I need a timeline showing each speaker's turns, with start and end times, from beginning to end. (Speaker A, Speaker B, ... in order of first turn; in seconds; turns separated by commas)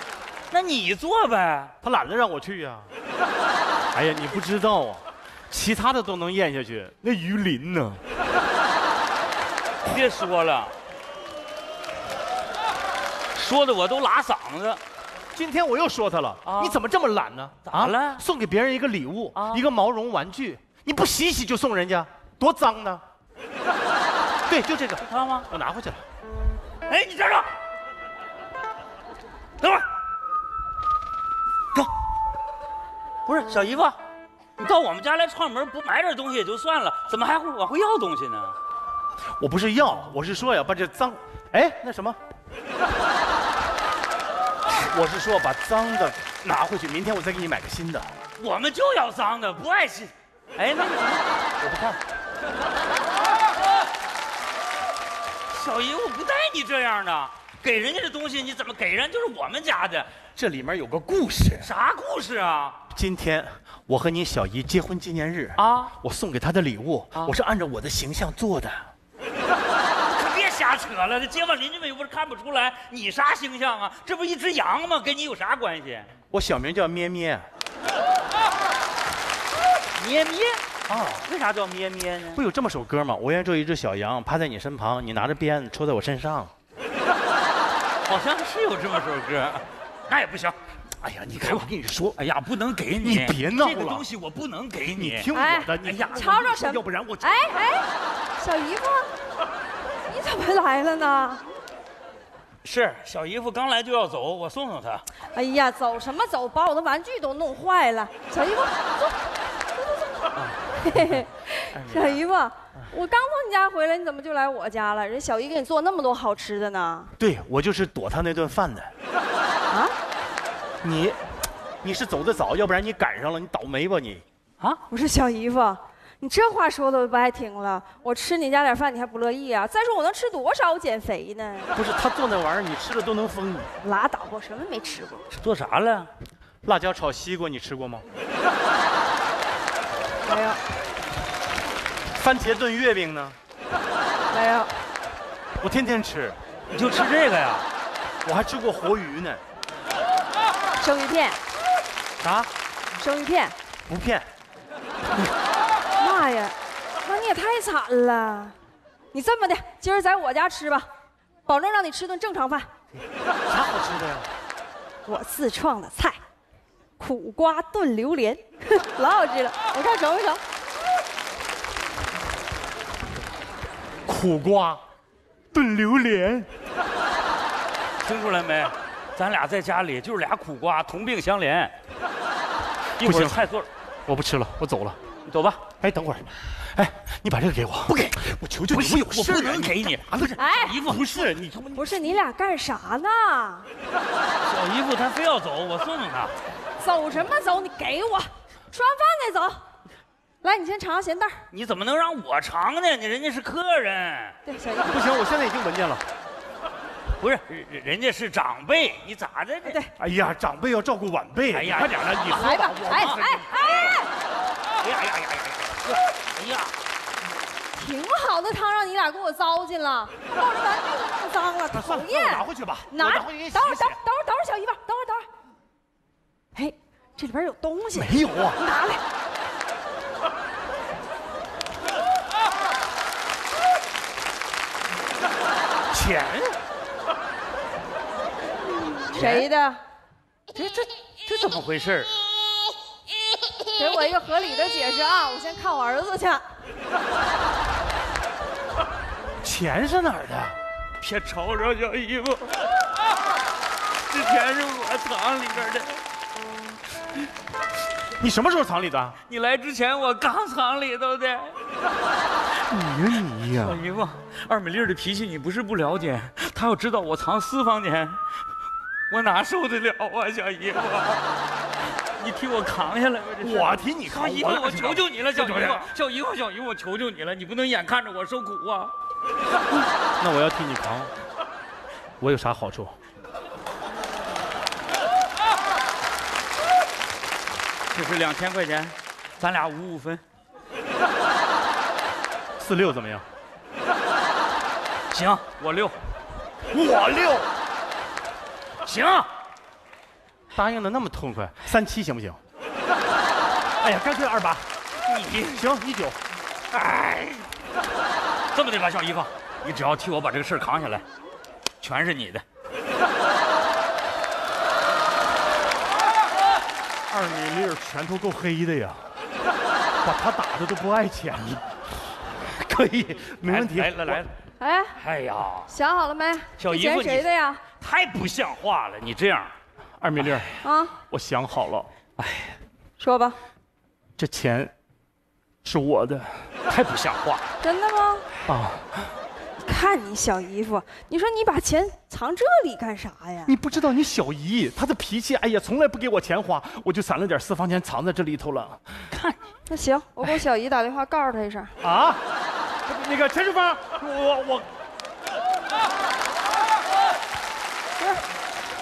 Speaker A: 0.5-1.7, Speaker B: 1.8-2.9, Speaker B: 3.9-8.0, Speaker A: 9.8-10.7, Speaker A: 13.3-14.8, Speaker B: 15.3-23.0, Speaker A: 16.4-16.8, Speaker A: 17.6-18.2, Speaker A: 19.3-19.6, Speaker B: 24.5-26.0, Speaker A: 25.0-25.5, Speaker A: 26.9-27.5, Speaker A: 29.6-29.9, Speaker A: 33.2-34.0, Speaker A: 34.6-38.5, Speaker B: 39.4-42.2, Speaker B: 44.7-48.2, Speaker A: 48.4-51.3, Speaker B: 51.6-52.0, Speaker A: 55.5-60.1, Speaker B: 60.3-61.7, Speaker A: 61.6-62.8, Speaker B: 62.9-68.9, Speaker A: 65.6-65.9, Speaker A: 70.0-76.1, Speaker B: 76.3-77.5, Speaker A: 80.0-82.4, Speaker B: 80.9-81.3, Speaker B: 82.3-86.5, Speaker A: 88.1-90.6, Speaker B: 91.0-92.2, Speaker A: 91.3-95.3, Speaker B: 93.0-94.1, Speaker B: 94.9-97.4, Speaker C: 95.3-99.1, Speaker A: 95.8-96.2, Speaker C: 100.1-101.4, Speaker A: 102.6-105.0, Speaker C: 105.3-110.1, Speaker B: 110.3-112.2, Speaker C: 110.8-117.1, Speaker B: 117.2-118.9, Speaker C: 119.7-119.9, Speaker B: 120.8-121.2, Speaker B: 121.8-124.2, Speaker C: 124.9-131.7, Speaker B: 131.7-133.7, Speaker C: 133.8-135.2, Speaker A: 135.3-136.1, Speaker B: 136.6-138.0, Speaker C: 140.2-140.6, Speaker B: 142.1-143.4, Speaker C: 144.3-144.7, Speaker B: 145.6-146.4, Speaker A: 146.7-147.7, Speaker B: 148.2-149.4, Speaker C: 150.8-151.4, Speaker B: 152.2-152.5, Speaker C: 153.0-153.5, Speaker B: 153.9-154.3, Speaker C: 156.0-158.5, Speaker C: 159.1-160.9, Speaker C: 161.4-162.7, Speaker B: 163.5-164.3, Speaker C: 165.1-166.2, Speaker C: 167.0-170.4, Speaker B: 174.1-174.8, Speaker B: 175.5-176.5, Speaker A: 178.0-181.7, Speaker A: 183.0-183.7, Speaker B: 183.0-183.5, Speaker B: 184.1-185.0, Speaker A: 185.3-185.6, Speaker B: 185.8-192.1, Speaker A: 187.9-191.3, Speaker C: 190.3-190.8, Speaker C: 191.7-193.7, Speaker A: 194.4-196.3, Speaker C: 196.8-199.6, Speaker C: 200.4-201.4, Speaker A: 201.5-204.3, Speaker C: 204.4-205.0, Speaker B: 204.8-206.1, Speaker A: 207.2-209.8, Speaker C: 209.6-209.9, Speaker B: 210.0-213.6, Speaker A: 211.5-213.2, Speaker C: 212.2-214.1, Speaker A: 214.8-216.7, Speaker C: 217.7-225.2, Speaker B: 221.7-224.0, Speaker C: 226.5-229.0, Speaker B: 227.9-228.6, Speaker B: 235.9-236.6, Speaker C: 239.1-239.8, Speaker A: 239.1-239.5, Speaker A: 240.5-242.1, Speaker C: 243.8-246.4, Speaker B: 249.4-250.6, Speaker A: 251.0-252.5, Speaker A: 254.1-256.0, Speaker B: 258.2-259.2, Speaker A: 259.3-261.6, Speaker B: 262.7-263.8, Speaker A: 263.5-268.2, Speaker A: 269.1-271.2, Speaker A: 272.2-278.9, Speaker B: 273.4-275.9, Speaker B: 280.2-281.1, Speaker B: 282.2-283.0, Speaker A: 287.9-290.2, Speaker B: 292.6-293.2, Speaker A: 295.1-296.0, Speaker B: 296.7-297.5, Speaker A: 298.8-299.3, Speaker B: 300.5-302.4, Speaker B: 303.8-304.7, Speaker A: 305.0-305.6, Speaker B: 305.5-306.2, Speaker A: 306.7-307.5, Speaker A: 308.5-311.0, Speaker A: 311.8-312.4, Speaker B: 317.1-319.1, Speaker B: 320.0-321.8, Speaker B: 322.6-324.2, Speaker A: 322.9-324.3, Speaker C: 324.6-325.0, Speaker A: 325.0-325.7, Speaker C: 325.7-327.6, Speaker A: 326.6-327.3, Speaker A: 327.8-329.5, Speaker B: 330.0-330.5, Speaker A: 330.2-330.5, Speaker C: 330.6-330.9, Speaker B: 331.0-331.9, Speaker A: 332.2-332.6, Speaker C: 333.0-333.4, Speaker B: 334.2-334.7, Speaker B: 335.6-336.5, Speaker A: 336.7-337.4, Speaker C: 337.6-338.3, Speaker B: 338.4-338.9, Speaker C: 339.6-343.6, Speaker B: 343.4-348.8, Speaker A: 349.1-349.4, Speaker C: 349.7-351.7, Speaker B: 351.8-352.2, Speaker B: 352.9-354.7, Speaker C: 358.0-358.2